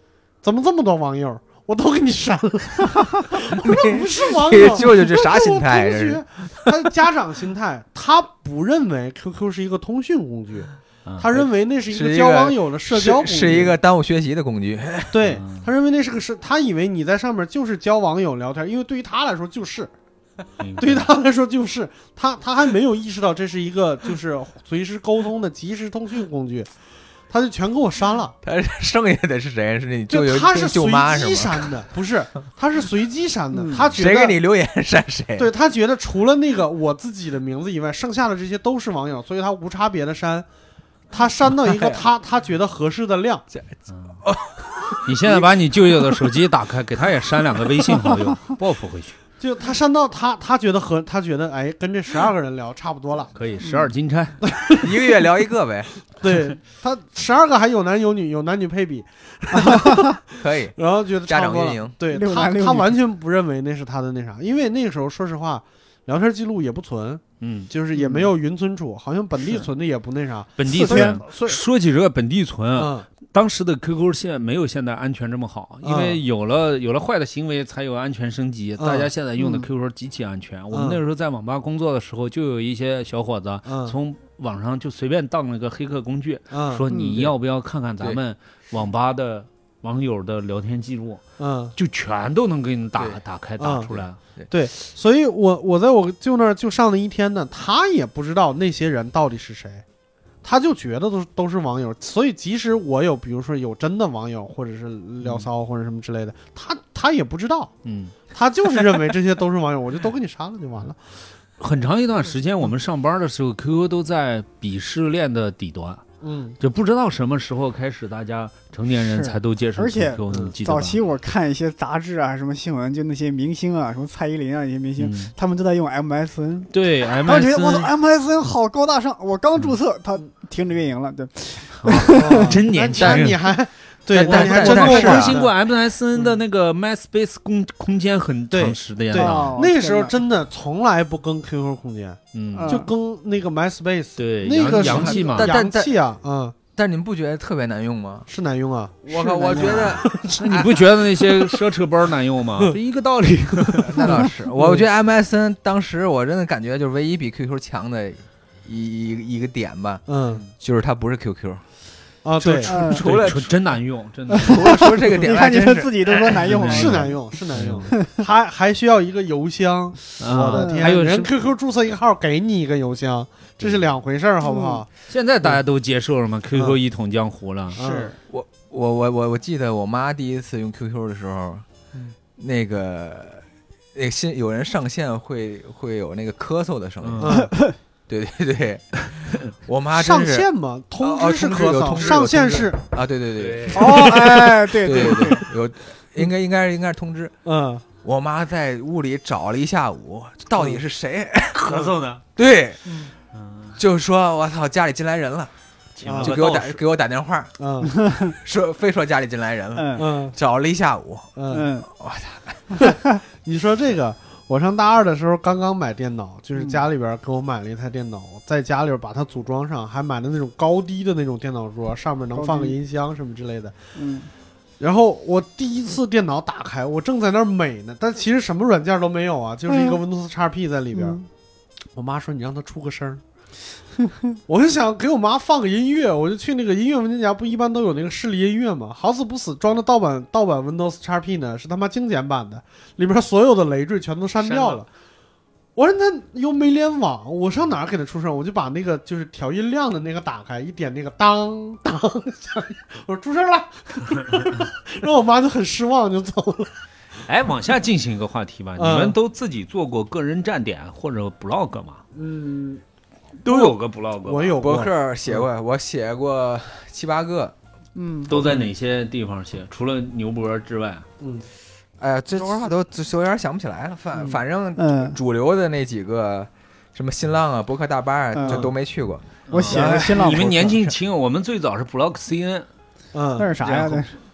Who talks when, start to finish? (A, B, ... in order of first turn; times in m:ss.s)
0:00.4-0:13.8 A
0:03.5-0:06.7 B
0:11.3-0:15.4 B
0:15.1-0:19.9 A
0:15.3-0:15.7 C
0:20.6-0:21.1 C
0:20.8-0:26.7 A
0:27.3-0:28.4 A
0:28.4-0:31.8 B
0:30.1-0:34.4 A
0:33.5-0:33.9 D
0:33.9-0:35.5 B
0:35.4-0:40.5 A
0:41.1-0:43.4 A
0:41.6-0:42.1 B
0:43.5-0:45.4 B
0:43.9-0:44.2 C
0:45.0-0:49.2 C
0:49.4-0:53.3 A
0:53.3-0:54.4 C
0:53.6-0:53.9 D
0:54.5-0:55.0 A
0:54.7-0:55.9 B
0:56.2-1:11.6 A
0:59.6-1:00.2 D
1:00.4-1:02.0 B
1:02.1-1:03.0 D
1:07.4-1:07.7 C
1:08.0-1:08.3 D
1:10.6-1:31.2 C
1:10.7-1:11.2 D
1:12.8-1:13.1 A
1:15.8-1:16.2 A
1:18.8-1:19.1 A
1:19.4-1:19.7 D
1:20.7-1:21.0 A
1:23.7-1:24.0 A
1:26.5-1:26.8 A
1:26.9-1:27.2 D
1:31.4-1:31.8 A
1:31.8-1:34.2 C
1:33.6-1:39.8 A
1:40.4-1:47.7 A
1:45.2-1:45.5 C
1:47.8-1:48.1 C
1:48.3-1:51.0 A
1:51.6-1:56.0 C
1:56.2-1:56.6 A
1:56.6-2:01.0 C
1:59.0-2:12.6 D
2:05.0-2:05.3 C
2:06.7-2:07.9 C
2:11.8-2:13.5 C
2:12.1-2:15.5 A
2:14.1-2:15.4 B
2:14.1-2:19.6 C
2:18.5-2:26.6 A
2:19.1-2:20.2 D
2:22.3-2:22.8 C
2:22.6-2:22.9 D
2:24.2-2:25.5 C
2:24.7-2:25.9 B
2:26.8-2:28.3 B
2:28.3-2:30.4 A
2:29.1-2:30.9 B
2:29.1-2:30.0 D
2:29.9-2:34.1 C
2:33.8-2:40.0 B
2:34.5-2:34.8 A
2:40.1-2:40.4 A
2:40.6-2:41.6 B
2:42.2-2:42.7 A
2:42.4-2:43.6 B
2:42.7-2:43.0 D
2:42.7-2:44.8 C
2:44.3-2:47.1 D
2:44.4-2:46.2 B
2:46.3-2:47.9 C
2:46.6-2:54.9 A
2:50.2-2:51.3 C
2:50.5-2:51.1 D
2:54.4-2:54.8 D
2:55.1-2:57.8 C
2:57.8-2:58.2 A
2:57.8-2:58.2 D
2:58.3-3:01.6 B
3:02.4-3:07.5 B
3:07.0-3:07.4 C
3:07.2-3:07.5 A
3:07.4-3:07.8 D
3:08.1-3:17.3 B
3:09.9-3:12.8 A
3:11.8-3:12.2 C
3:13.4-3:14.0 C
3:13.7-3:14.5 A
3:13.7-3:15.5 D
3:17.4-3:17.8 A
3:18.0-3:21.8 B
3:20.6-3:20.8 A
3:21.5-3:22.2 C
3:22.4-3:22.8 B
3:23.3-3:23.8 C
3:23.8-3:25.5 B
3:26.0-3:26.8 C
3:26.1-3:26.4 A
3:26.1-3:27.6 B
3:27.6-3:27.9 A
3:28.0-3:28.3 D
3:28.2-3:31.3 B
3:29.8-3:30.0 D
3:30.0-3:30.4 A
3:31.4-3:31.7 A
3:31.5-3:31.9 D
3:31.9-3:32.8 B
3:33.4-3:43.7 A
3:42.4-3:42.8 D
3:44.0-3:44.3 D
3:44.8-3:51.2 A
3:49.7-3:50.0 D
3:50.9-3:51.3 D
3:52.0-3:53.2 A
3:54.5-4:04.9 A
4:04.4-4:04.8 C
4:05.8-4:16.7 A
4:17.2-4:22.0 C
4:18.8-4:19.2 A
4:22.1-4:22.8 A
4:23.4-4:24.6 C
4:23.5-4:25.5 A
4:24.6-4:27.6 B
4:28.0-4:28.4 D
4:28.3-4:31.1 C
4:28.3-4:28.7 A
4:31.2-4:31.5 A
4:32.0-4:41.0 B
4:34.2-4:34.4 A
4:34.8-4:35.2 D
4:38.3-4:38.7 D
4:39.5-4:42.7 C
4:39.5-4:40.8 D
4:43.1-4:43.6 A
4:43.4-4:44.2 D
4:43.6-4:44.0 C